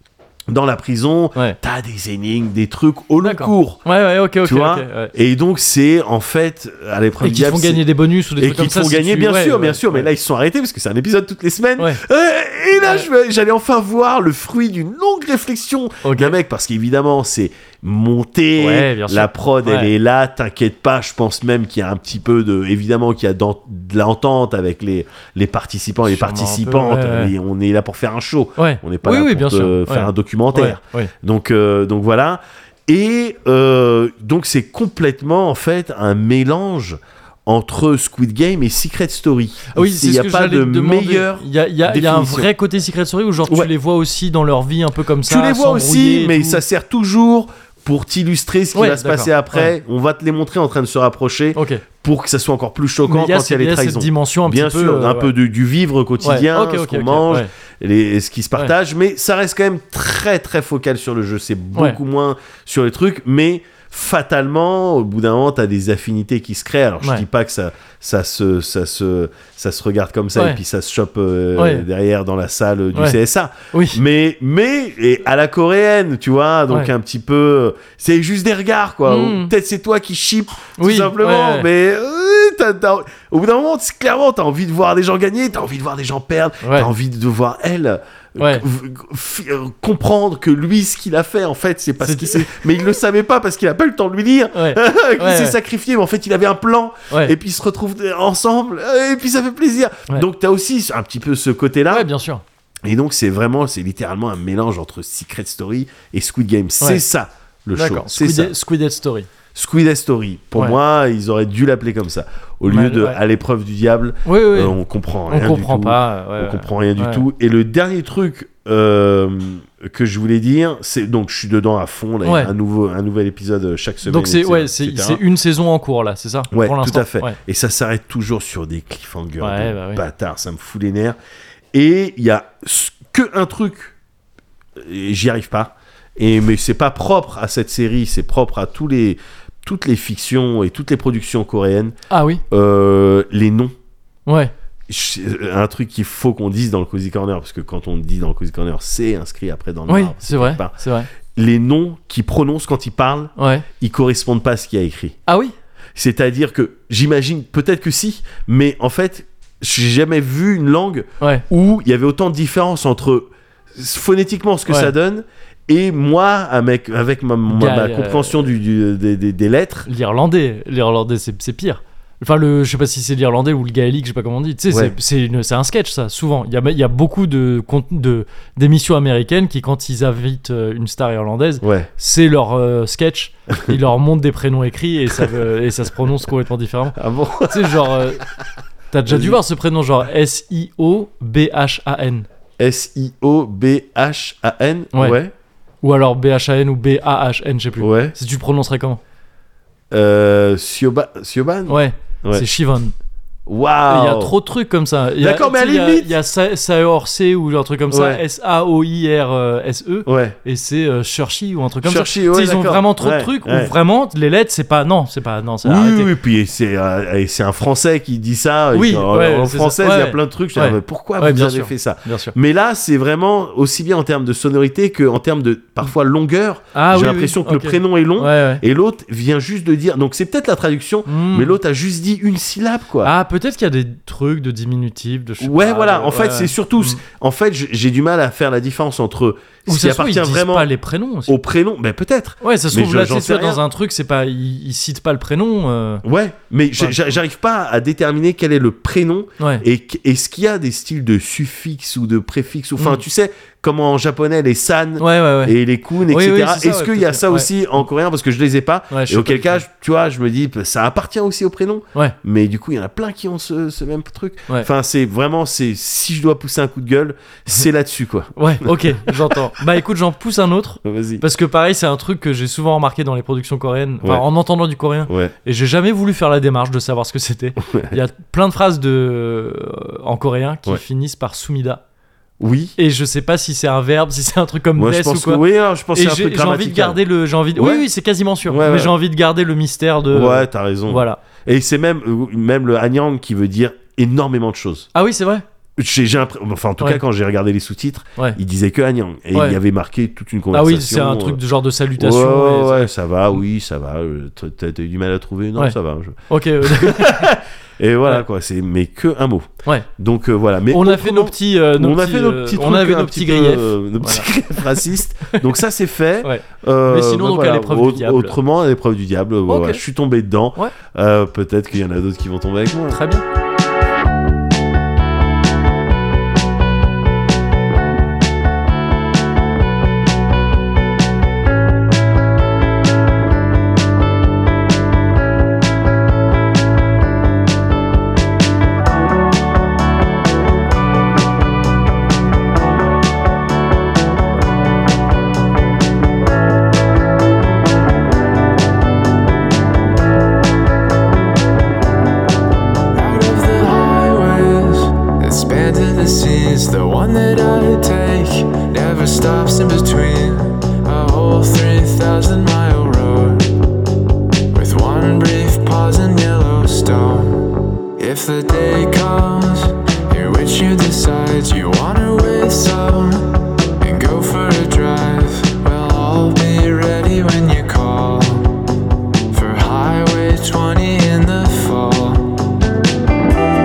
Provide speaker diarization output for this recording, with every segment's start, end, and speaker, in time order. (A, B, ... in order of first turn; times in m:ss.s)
0:00.5-0:03.8 A
0:03.2-0:05.1 B
0:04.4-0:07.8 A
0:07.2-0:10.1 B
0:08.4-0:42.5 A
0:12.8-0:13.1 B
0:16.0-0:16.4 B
0:18.6-0:19.9 B
0:26.1-0:27.3 B
0:28.6-0:31.1 B
0:39.7-0:46.6 B
0:45.3-1:42.1 A
0:48.7-0:49.7 B
0:51.6-0:51.8 B
0:53.1-0:55.3 B
0:56.2-0:57.5 B
1:10.4-1:10.6 B
1:11.6-1:11.9 B
1:13.7-1:14.0 B
1:19.1-1:19.5 B
1:20.8-1:21.7 B
1:26.6-1:26.9 B
1:28.4-1:28.6 B
1:32.0-1:32.6 B
1:34.5-1:35.6 B
1:41.9-1:42.4 B
1:42.8-1:48.6 A
1:47.8-1:49.3 B
1:49.6-2:05.2 A
1:52.7-1:53.2 B
1:54.2-1:54.8 B
1:55.3-1:57.2 B
2:02.2-2:02.5 B
2:04.0-2:07.4 B
2:06.5-2:11.2 A
2:09.4-2:10.0 B
2:11.7-2:14.0 A
2:14.8-2:22.0 A
2:22.1-2:22.4 B
2:22.5-2:23.7 A
2:24.3-2:24.5 B
2:24.9-2:35.2 A
2:29.9-2:31.1 B
2:33.4-2:33.7 B
2:35.3-2:35.5 B
2:36.0-2:49.9 A
2:47.5-2:48.5 B
2:49.9-3:08.3 B
3:01.6-3:01.9 A
3:07.0-3:08.3 A
3:08.9-3:12.3 B
3:09.1-3:09.4 A
3:12.6-3:15.3 A
3:15.8-3:19.0 B
3:17.8-3:18.2 A
3:19.9-3:22.5 A
3:21.7-3:22.9 B
3:23.5-3:24.3 A
3:23.9-3:36.1 B
3:25.2-3:26.1 A
3:27.9-3:28.2 A
3:30.1-3:30.4 A
3:31.8-3:33.7 A
3:35.6-3:53.1 A
3:38.7-3:42.4 B
3:46.7-3:48.6 B
3:51.1-3:51.6 B
3:53.0-3:57.0 B
3:55.4-4:00.7 A
3:59.7-4:01.4 B
4:01.3-4:03.6 A
4:02.4-4:06.0 B
4:06.0-4:29.4 A
4:06.8-4:07.0 B
4:15.0-4:15.6 B
4:16.1-4:17.5 B
4:18.9-4:19.6 B
4:28.4-4:41.8 B
4:30.8-4:31.2 A
4:35.1-4:35.3 A
4:37.7-4:38.0 A
4:42.4-4:42.8 A
4:42.8-4:51.2 B
4:44.8-4:47.0 A
4:47.6-4:47.8 A
4:48.5-4:49.0 A
4:50.1-4:54.9 A
4:54.9-4:55.4 B
4:55.8-5:01.4 A
4:59.3-4:59.6 B
5:00.5-5:02.9 B
5:02.0-5:23.0 A
5:06.3-5:07.3 B
5:10.7-5:14.3 B
5:16.2-5:18.4 B
5:19.5-5:19.8 B
5:22.9-5:23.2 B
5:52.9-6:03.5 C
6:04.5-6:18.6 C
6:19.3-6:22.4 C